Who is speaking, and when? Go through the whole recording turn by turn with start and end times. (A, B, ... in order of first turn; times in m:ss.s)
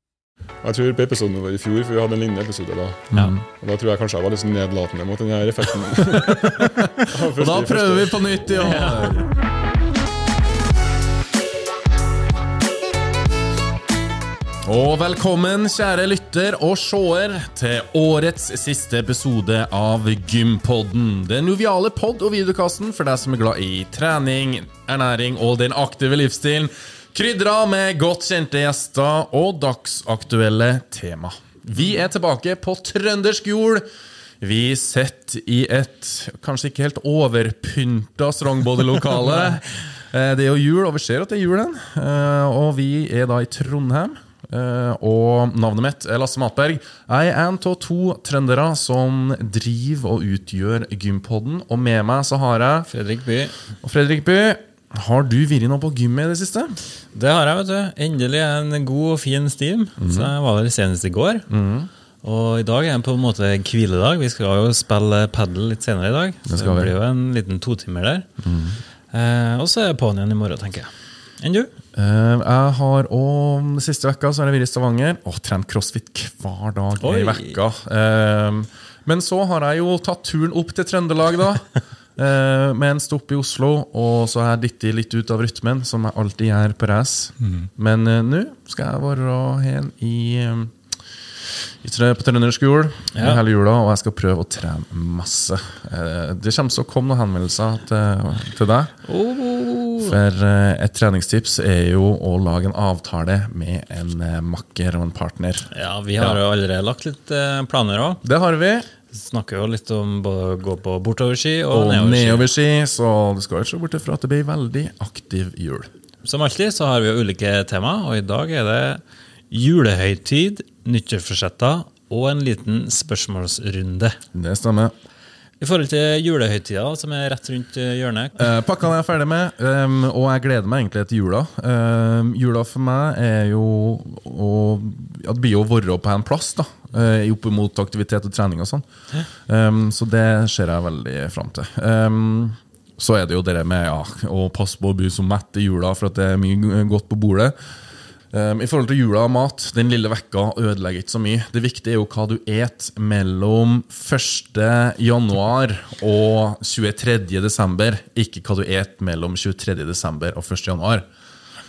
0:00.6-0:08.3 A
0:03.1-0:03.4 B
0:06.1-0:09.3 B
0:08.6-0:09.2 C
0:14.6-0:33.8 B
0:34.4-0:52.9 B
0:52.9-0:53.5 C
0:53.8-0:56.8 B
0:57.1-1:01.5 C
1:00.0-1:00.3 B
1:01.5-1:01.9 B
1:02.2-1:08.3 C
1:06.4-1:06.9 B
1:08.4-1:08.8 B
1:09.1-1:11.7 C
1:12.0-1:30.7 B
1:17.0-1:17.6 C
1:31.8-1:38.9 B
1:33.1-1:33.4 C
1:39.1-1:40.2 C
1:40.0-1:46.4 B
1:45.7-1:48.2 C
1:48.2-1:48.9 B
1:49.1-1:52.5 C
1:51.7-1:55.9 B
1:56.2-2:04.2 C
2:04.3-2:04.9 B
2:05.6-2:08.5 C
2:08.4-2:27.5 B
2:28.3-2:41.0 B